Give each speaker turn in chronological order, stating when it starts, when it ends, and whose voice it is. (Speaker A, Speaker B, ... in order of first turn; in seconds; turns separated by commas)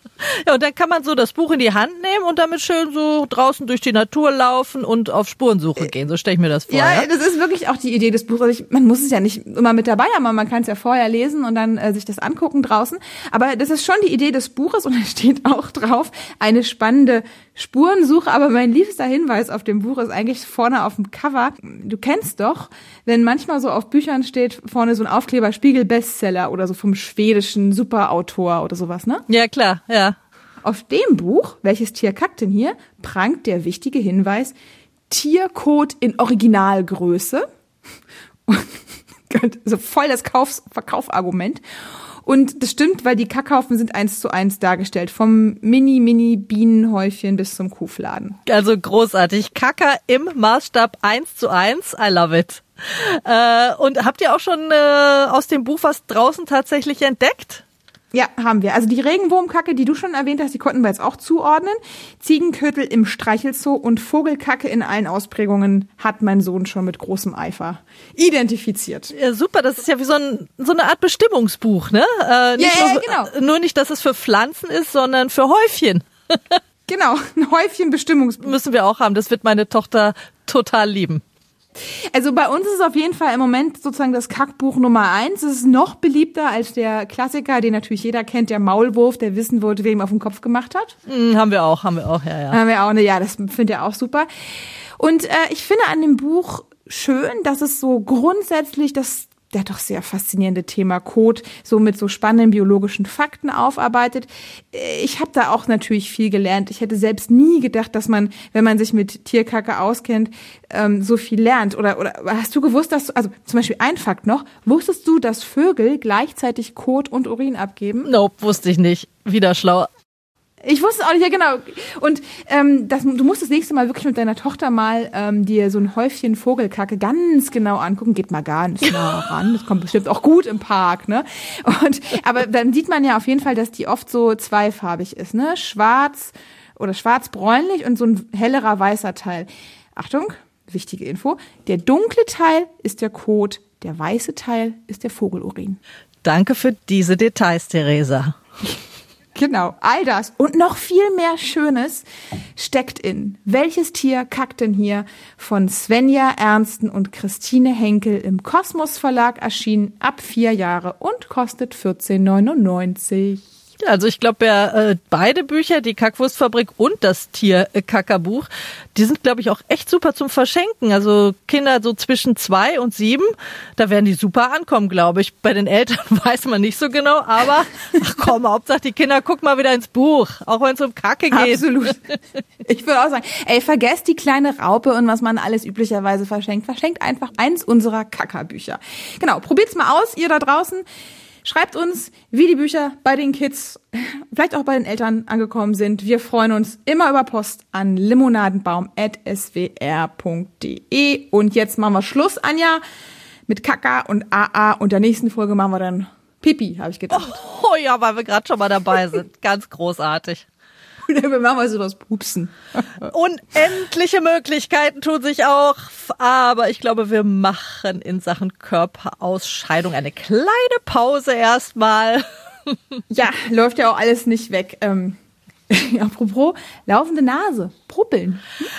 Speaker A: 0.5-7.1, Speaker B: 6.7-29.3, Speaker A: 29.3-30.2, Speaker B: 30.6-34.5, Speaker B: 35.1-37.5, Speaker B: 38.5-38.8, Speaker B: 39.3-41.6, Speaker B: 42.2-48.4, Speaker A: 48.5-57.6, Speaker B: 58.1-69.1, Speaker A: 69.1-76.6, Speaker B: 72.6-73.3, Speaker B: 76.9-78.6, Speaker A: 78.4-81.2, Speaker B: 82.1-91.0, Speaker A: 91.1-92.6, Speaker B: 92.5-94.3, Speaker B: 95.0-118.1, Speaker A: 118.0-119.9, Speaker B: 120.7-145.8, Speaker A: 146.2-148.3, Speaker B: 149.3-152.1, Speaker B: 152.6-163.4, Speaker A: 163.8-181.8, Speaker B: 181.3-182.0, Speaker B: 182.7-190.8, Speaker B: 191.4-202.8, Speaker B: 203.5-207.4, Speaker A: 207.1-210.5, Speaker B: 211.1-213.1, Speaker A: 213.1-223.0, Speaker B: 223.1-225.2, Speaker B: 225.7-228.6